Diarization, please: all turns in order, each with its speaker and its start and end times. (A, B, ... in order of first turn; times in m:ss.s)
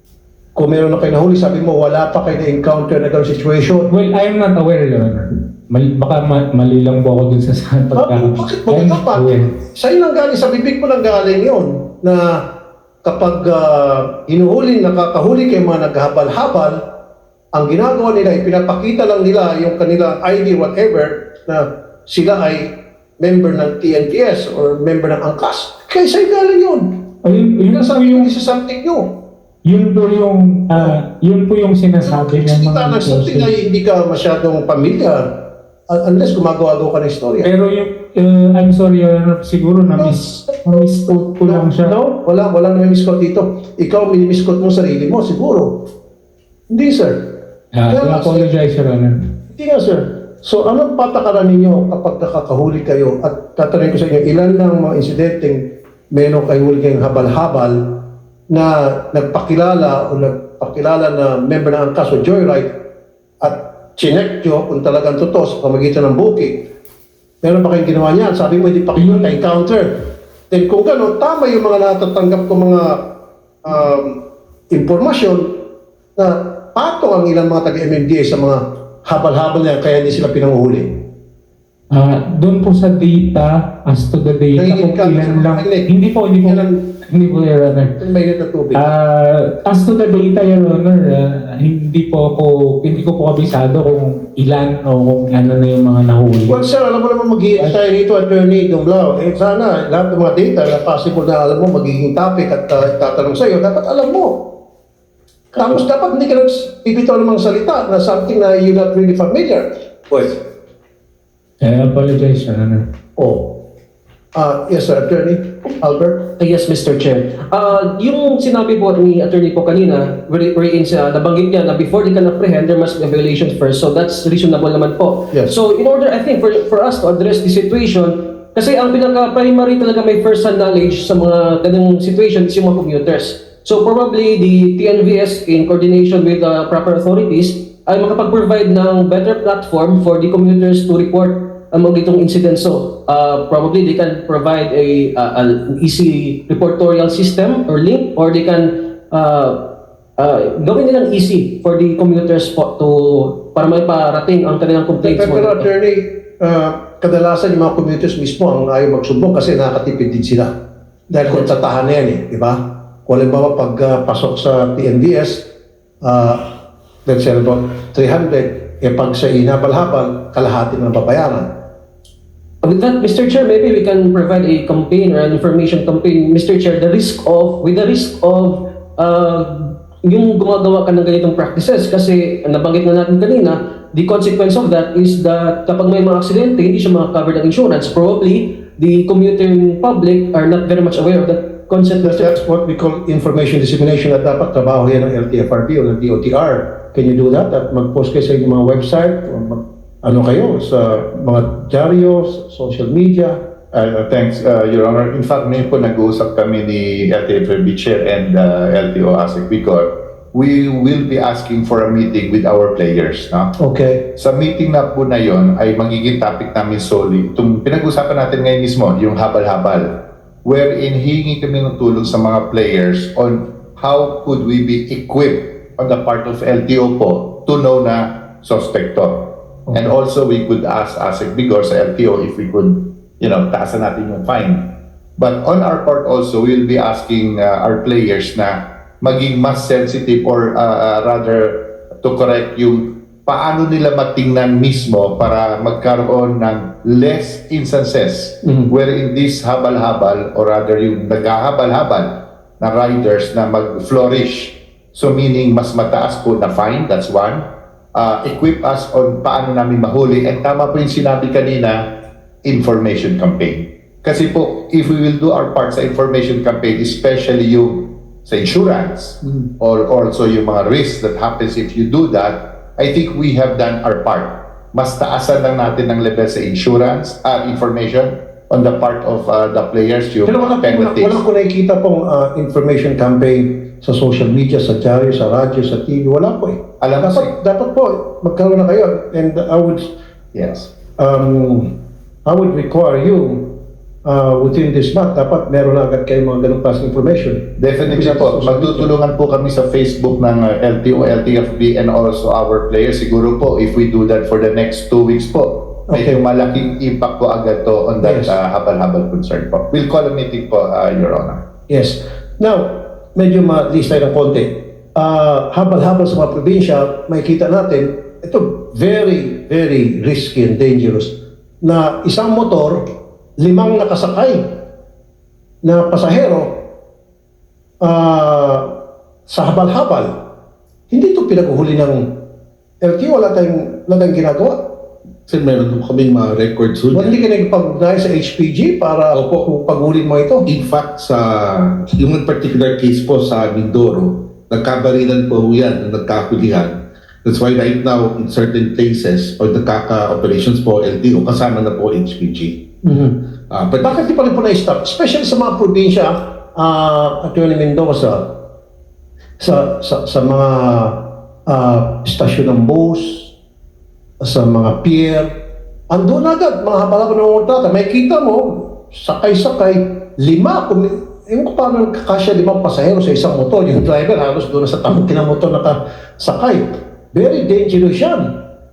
0:00.5-0:03.9 A
0:03.9-0:09.5 B
0:08.0-0:12.4 A
0:13.0-0:16.8 A
0:17.5-0:26.9 A
0:27.2-0:28.3 B
0:27.7-0:29.1 A
0:29.6-0:33.5 B
0:32.0-0:37.5 A
0:37.4-0:41.9 B
0:40.0-0:45.8 A
0:46.7-0:47.3 A
0:47.7-0:49.2 B
0:47.9-0:48.5 A
0:49.5-1:02.8 A
1:03.4-1:06.6 A
1:07.4-1:09.9 A
1:09.0-1:09.3 B
1:10.5-1:13.0 A
1:13.6-1:14.2 A
1:14.7-1:15.6 A
1:16.2-1:21.0 A
1:21.9-1:27.9 B
1:24.6-1:26.7 A
1:28.0-1:28.8 A
1:28.7-1:36.6 B
1:36.5-1:44.5 A
1:45.5-1:50.4 A
1:51.6-1:52.8 B
1:53.2-1:53.6 A
1:54.3-1:56.3 A
1:56.4-2:29.6 C
2:30.2-2:35.7 C
2:35.0-2:40.5 A
2:41.1-2:45.5 A
2:46.0-2:46.5 A
2:47.0-2:51.5 A
2:52.6-3:12.3 C
3:12.0-3:23.4 A
3:23.7-3:33.5 D
3:33.6-3:34.1 A
3:34.2-4:21.9 D
4:22.4-4:41.2 D
4:40.2-4:49.9 A
4:46.8-4:47.3 D
4:50.3-4:50.7 D
4:51.0-4:51.7 A
4:52.2-4:58.9 A
4:57.6-5:11.4 D
5:05.9-5:06.2 A
5:08.0-5:08.4 A
5:11.7-5:22.8 A
5:23.4-5:24.5 A
5:25.6-5:26.6 A
5:27.8-5:28.7 A
5:29.3-5:30.2 A
5:30.9-5:32.0 A
5:32.8-5:34.7 A
5:35.3-5:37.2 E
5:36.9-5:40.4 A
5:39.1-5:39.5 E
5:40.4-5:52.6 E
5:52.8-5:53.2 A
5:53.5-5:54.0 E
5:53.8-5:58.4 A
5:59.4-6:03.3 A
6:04.2-6:05.3 A
6:05.9-6:18.3 A